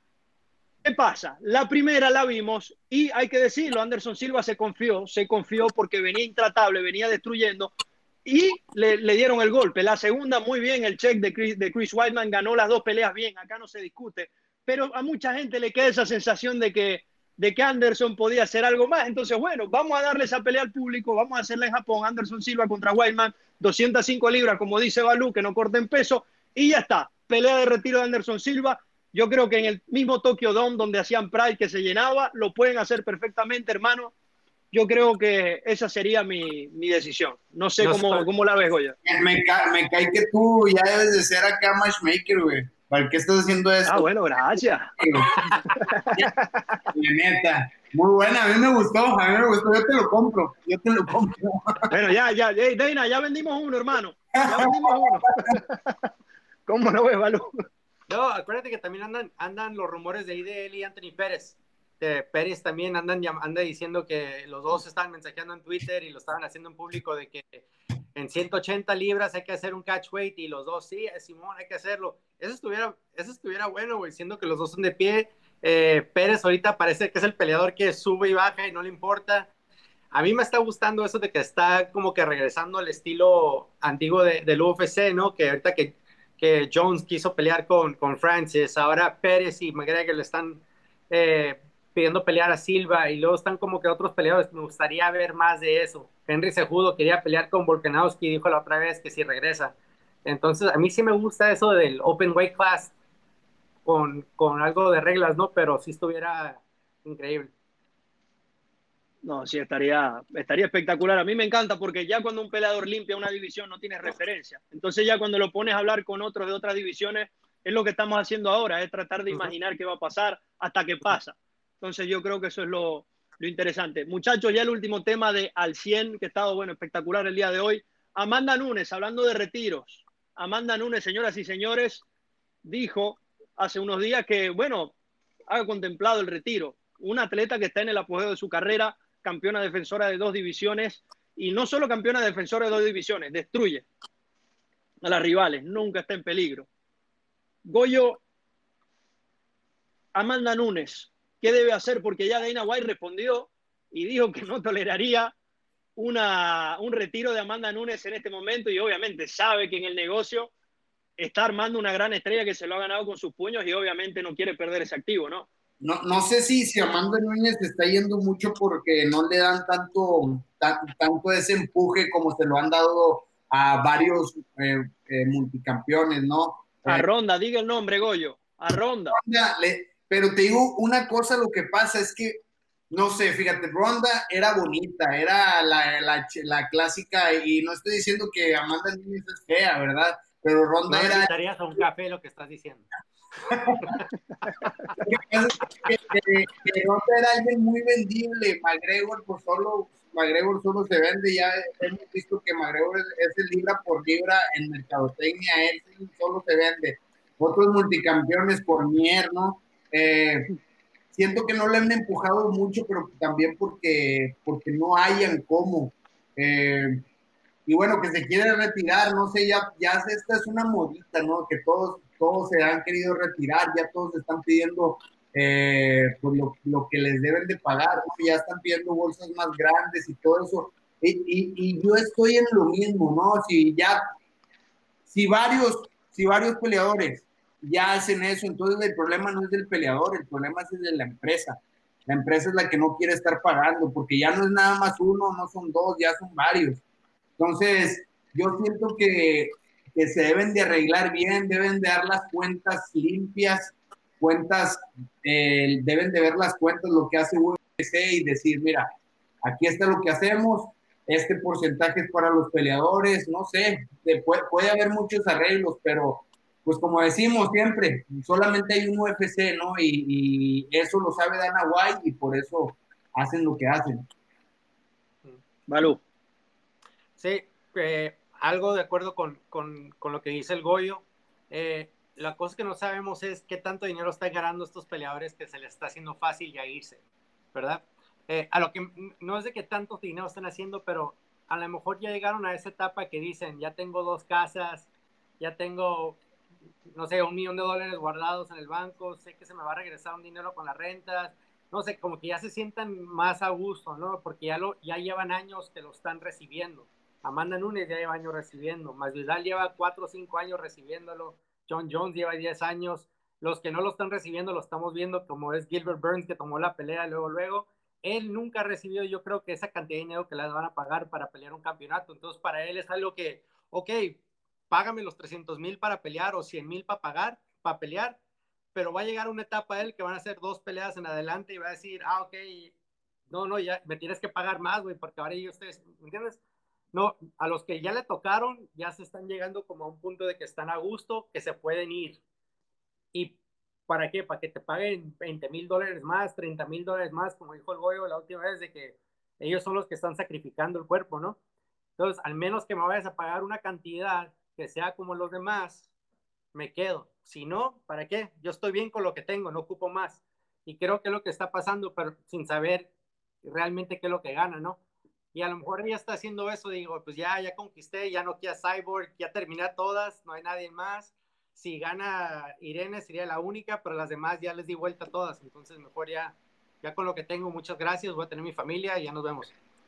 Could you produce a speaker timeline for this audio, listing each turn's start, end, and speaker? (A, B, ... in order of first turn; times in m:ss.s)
0:00.8-0:07.7 A
0:08.2-0:34.1 A
0:34.7-0:39.0 A
0:37.8-0:38.3 B
0:39.0-0:44.0 C
0:43.8-0:44.9 A
0:45.0-0:45.3 C
0:45.4-0:45.7 B
0:45.8-0:46.8 A
0:46.9-0:51.9 C
0:51.9-0:56.0 A
0:54.4-0:55.0 C
0:56.7-0:57.5 A
0:58.1-1:19.5 B
1:20.1-1:39.7 B
1:40.2-1:42.9 B
1:43.8-1:47.5 B
1:49.2-2:12.0 A
2:12.6-2:14.9 A
2:15.5-2:23.9 A
2:25.0-2:26.7 A
2:27.6-2:28.2 A
2:30.1-2:35.3 A
2:36.0-2:40.5 A
2:41.2-2:45.5 A
2:45.8-2:57.0 C
2:56.8-2:59.2 A
2:59.1-3:11.3 C
3:10.9-3:12.8 B
3:13.5-3:14.0 C
3:15.0-3:30.5 C
3:31.1-3:37.0 C
3:37.7-3:54.0 C
3:55.1-4:06.8 C
4:07.4-4:18.9 C
4:19.4-4:34.1 C
4:35.7-4:36.0 A
4:37.2-4:47.0 B
4:47.5-4:54.9 B
4:55.4-4:56.2 B
4:56.9-5:28.2 B
5:28.7-5:32.7 B
5:33.3-5:36.4 B
5:36.9-5:42.2 B
5:43.9-5:51.4 B
5:52.0-5:55.8 B
5:56.5-6:02.9 B
6:03.4-6:04.8 B
6:05.3-6:19.5 B